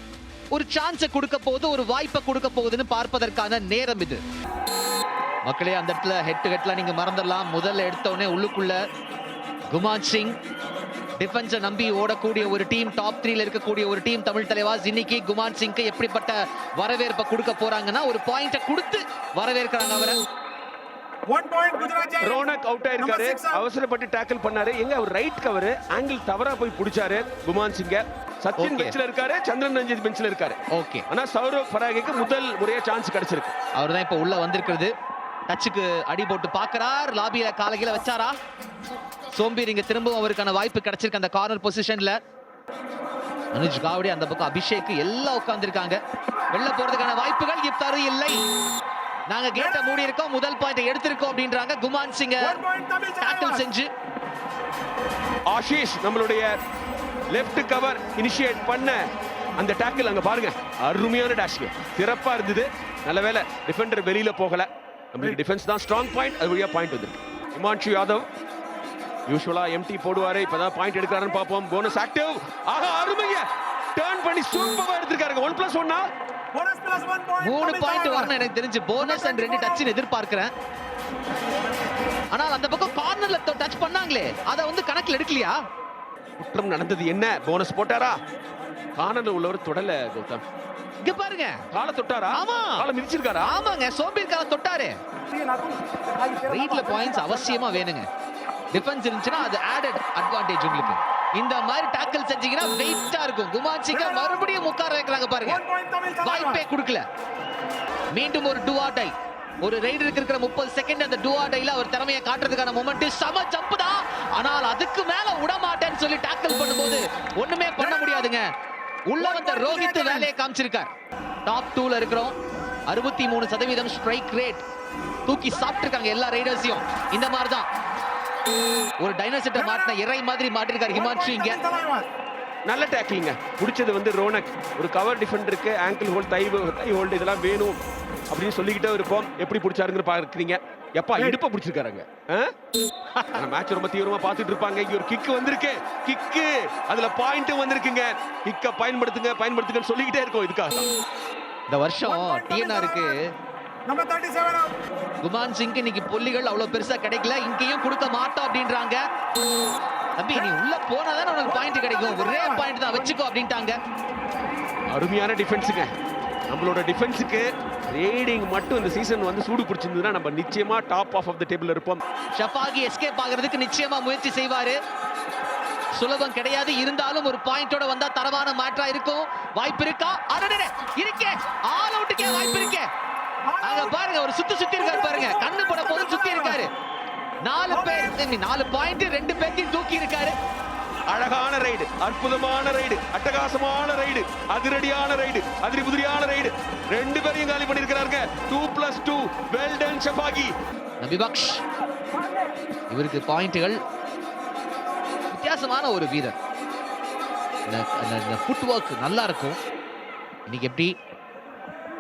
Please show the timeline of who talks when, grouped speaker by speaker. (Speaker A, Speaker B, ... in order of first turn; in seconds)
Speaker A: 0.5-4.2, 5.5-8.8, 9.7-10.4, 11.2-20.2, 28.6-28.9, 30.7-31.1, 33.8-34.9, 35.5-38.4, 39.3-42.2, 43.5-46.0, 46.5-48.4, 49.3-52.6, 53.2-53.9, 77.4-80.5, 82.3-85.6, 91.0-91.7, 92.3-92.9, 93.4-95.0, 96.5-98.1, 98.7-105.6, 106.2-107.0, 108.1-118.5, 119.1-120.9, 121.5-122.3, 122.9-124.6, 125.3-127.7, 129.0-131.6, 151.7-153.2, 155.2-159.0, 160.2-163.8, 172.4-174.8, 176.0-182.9, 183.6-186.7, 187.4-190.3, 201.0-201.6, 202.9-203.8, 205.3-206.3, 207.7-209.6, 210.5-210.9
Speaker B: 21.3-23.6, 49.5-49.9, 52.4-53.7, 76.5-78.3, 79.0-79.9, 95.3-97.7, 103.9-104.6, 105.4-106.6, 117.8-118.3, 119.2-120.3, 129.6-130.0, 130.9-132.1, 152.0-153.2, 153.9-154.8, 161.4-162.7, 183.5-184.1, 184.8-186.6, 187.7-188.2
Speaker C: 22.2-30.6, 31.1-33.5, 55.5-56.5, 57.3-59.0, 59.6-68.3, 69.3-76.1, 86.4-88.2, 89.0-90.4, 91.7-93.5, 132.7-142.5, 143.3-150.9, 164.9-165.9, 166.5-172.0, 191.1-200.5